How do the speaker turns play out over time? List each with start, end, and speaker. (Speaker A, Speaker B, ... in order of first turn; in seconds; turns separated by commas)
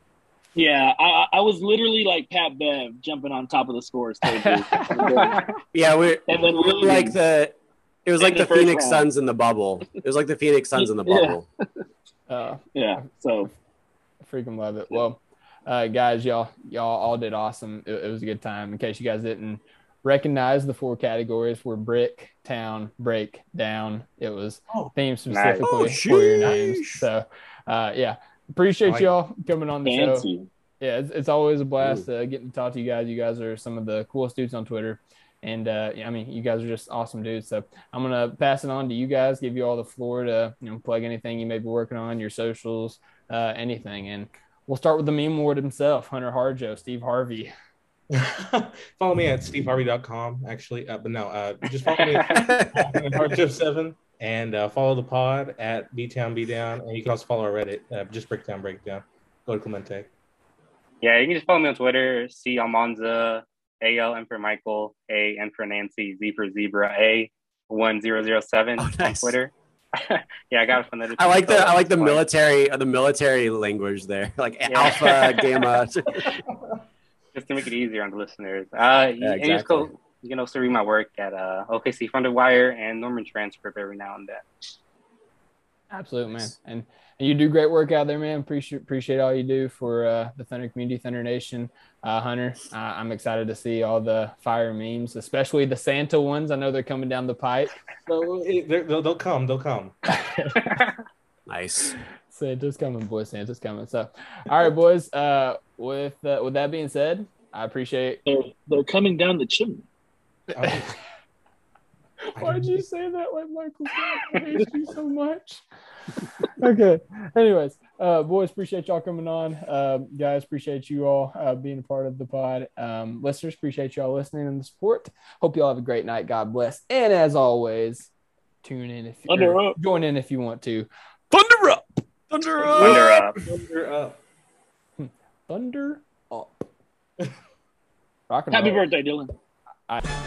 Speaker A: 0.5-5.5, Speaker B: 4.3-5.4, Speaker C: 5.7-11.4, Speaker A: 6.3-7.2, Speaker A: 8.2-9.1, Speaker A: 10.8-11.4, Speaker B: 12.3-12.6, Speaker A: 12.7-13.5, Speaker B: 14.2-30.3, Speaker D: 25.3-25.7, Speaker C: 25.6-27.1, Speaker E: 28.8-29.1, Speaker A: 29.8-30.5, Speaker B: 30.8-47.5, Speaker E: 48.1-60.1, Speaker D: 51.9-52.5, Speaker C: 52.3-53.1, Speaker D: 61.0-72.3, Speaker C: 68.8-69.4, Speaker C: 71.2-76.4, Speaker D: 74.7-75.5, Speaker D: 77.3-84.4, Speaker C: 79.2-79.9, Speaker B: 85.9-97.7, Speaker E: 98.1-99.9, Speaker B: 100.3-100.6, Speaker D: 100.6-100.9, Speaker C: 101.5-101.9, Speaker B: 102.3-108.2, Speaker A: 108.2-109.8, Speaker E: 110.5-110.9, Speaker B: 110.6-110.9, Speaker E: 112.3-112.8, Speaker B: 112.3-115.6, Speaker B: 116.4-128.1, Speaker B: 128.6-132.9, Speaker A: 129.3-129.8, Speaker E: 132.6-134.2, Speaker D: 132.8-133.4, Speaker B: 135.0-136.7, Speaker B: 138.3-138.8, Speaker A: 138.5-139.3